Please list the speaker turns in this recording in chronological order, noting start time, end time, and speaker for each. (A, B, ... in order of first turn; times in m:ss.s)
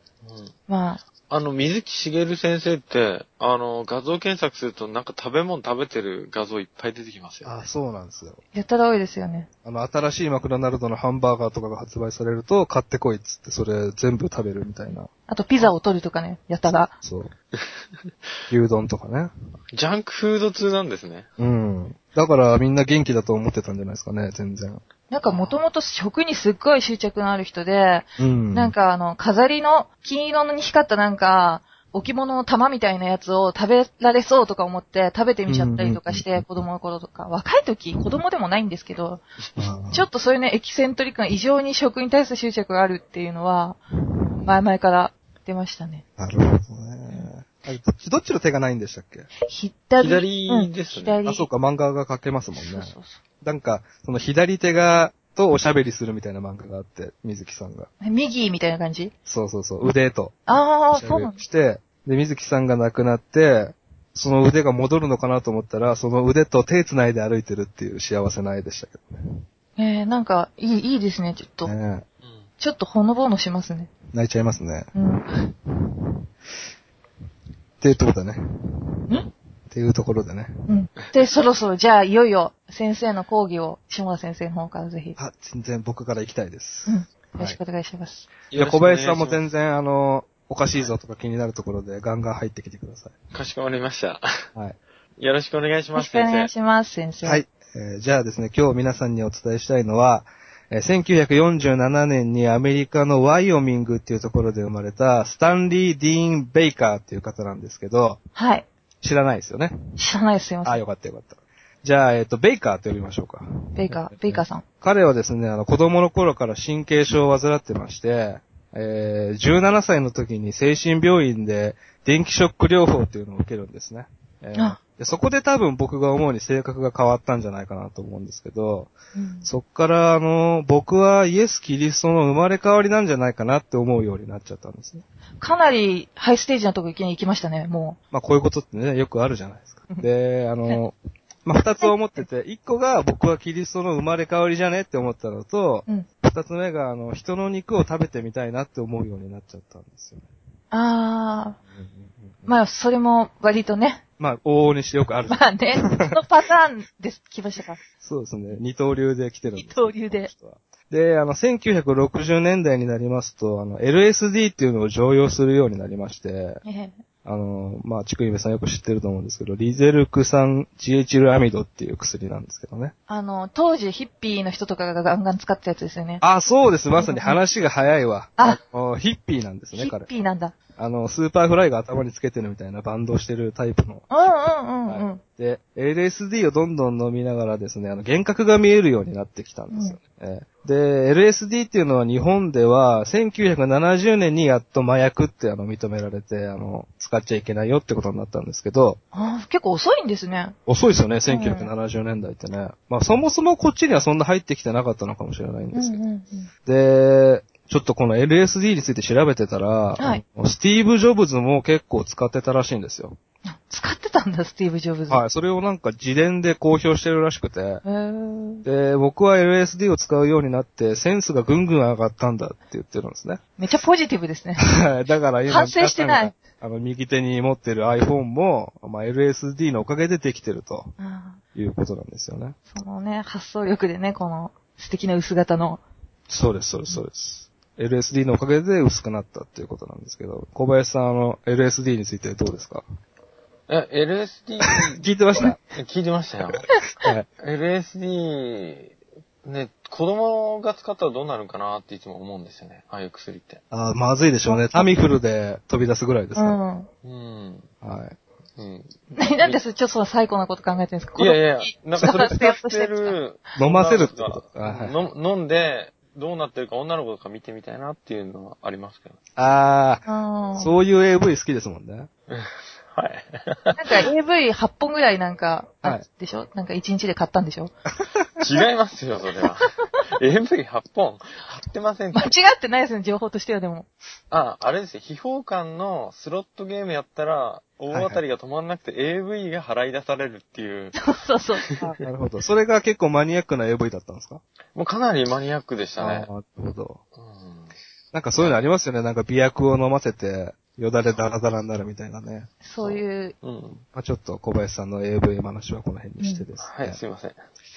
0:00.2-0:00.5 A
0:00.7-0:01.0 B
0:01.3-0:07.6 A
0:07.4-0:08.4 C
0:08.5-0:09.5 B
0:09.6-0:15.1 C
0:15.3-0:16.9 B
0:17.0-0:17.3 C
0:18.5-0:19.3 C
0:19.7-0:21.3 A
0:21.4-0:24.8 C
0:25.1-0:39.2 B
0:25.2-0:25.6 A
0:28.2-0:28.7 C
0:35.5-0:36.4 C
0:39.6-0:40.0 C
0:39.9-0:43.8 B
0:44.4-0:46.0 B
0:46.2-0:49.3 C
0:49.4-0:51.5 B
0:50.0-0:51.2 A
0:51.2-0:57.9 C
0:52.5-0:53.2 B
0:58.0-0:59.1 B
0:59.2-1:00.4 C
1:00.5-1:01.4 B
1:00.9-1:09.2 C
1:09.8-1:11.7 B
1:11.6-1:12.0 C
1:12.6-1:13.9 B
1:14.1-1:14.9 C
1:14.9-1:15.2 B
1:15.7-1:16.2 C
1:17.8-1:19.1 C
1:19.7-1:20.6 C
1:20.7-1:25.2 B
1:25.2-1:27.6 C
1:26.8-1:28.3 B
1:28.5-1:29.4 A
1:28.5-1:33.1 C
1:33.3-1:34.2 A
1:35.2-1:36.5 A
1:35.9-1:37.4 B
1:37.2-1:48.2 C
1:48.3-1:48.6 B
1:49.0-1:49.7 C
1:50.0-1:50.8 B
1:50.6-2:08.9 C
1:53.7-1:54.6 B
2:09.1-2:09.5 B
2:09.4-2:15.0 C
2:15.4-2:18.0 B
2:18.1-2:30.3 C
2:30.7-2:31.6 B
2:31.7-2:32.5 C
2:32.4-2:34.0 B
2:34.2-2:36.2 C
2:35.3-2:37.8 B
2:38.0-2:46.6 C
2:39.5-2:40.3 B
2:46.6-2:47.0 B
2:47.2-2:52.9 C
2:53.1-2:56.2 B
2:56.2-3:00.1 C
2:57.0-2:57.4 B
2:59.7-3:00.5 B
3:00.8-3:04.1 C
3:04.1-3:05.2 B
3:04.9-3:19.0 C
3:09.7-3:10.0 B
3:19.1-3:20.6 B
3:20.6-3:26.0 C
3:21.3-3:21.7 B
3:25.7-3:26.5 B
3:26.6-3:33.2 C
3:33.5-3:35.2 B
3:35.1-3:37.8 C
3:37.8-3:38.6 B
3:38.6-3:43.4 C
3:43.6-3:44.7 B
3:44.6-3:50.9 C
3:45.5-3:46.3 B
3:51.0-3:51.4 B
3:51.5-3:52.6 C
3:52.7-3:55.8 B
3:56.3-4:02.8 C
4:03.7-4:05.0 A
4:04.6-4:05.6 C
4:05.7-4:06.6 A
4:07.0-4:07.3 C
4:07.4-4:08.9 A
4:09.4-4:13.6 A
4:13.7-4:16.6 C
4:14.4-4:14.9 B
4:16.4-4:16.9 B
4:17.0-4:17.7 A
4:17.8-4:18.2 C
4:18.6-4:19.6 A
4:19.2-4:23.2 B
4:21.2-4:29.2 A
4:22.0-4:22.4 C
4:23.6-4:25.0 C
4:29.4-4:30.0 C
4:30.0-4:30.7 B
4:30.6-4:32.1 C
4:32.3-4:34.1 A
4:33.8-4:37.7 B
4:38.4-4:42.3 A
4:42.1-4:43.9 B
4:44.3-4:51.0 A
4:47.9-4:48.2 C
4:51.0-4:51.6 B
4:51.6-4:51.9 A
4:51.8-4:54.4 C
4:54.7-4:56.3 A
4:56.0-4:57.0 C
4:57.1-4:57.7 A
4:58.1-5:02.5 C
5:02.6-5:03.3 B
5:02.8-5:03.8 A
5:03.9-5:07.0 C
5:06.2-5:06.4 B
5:06.6-5:07.4 A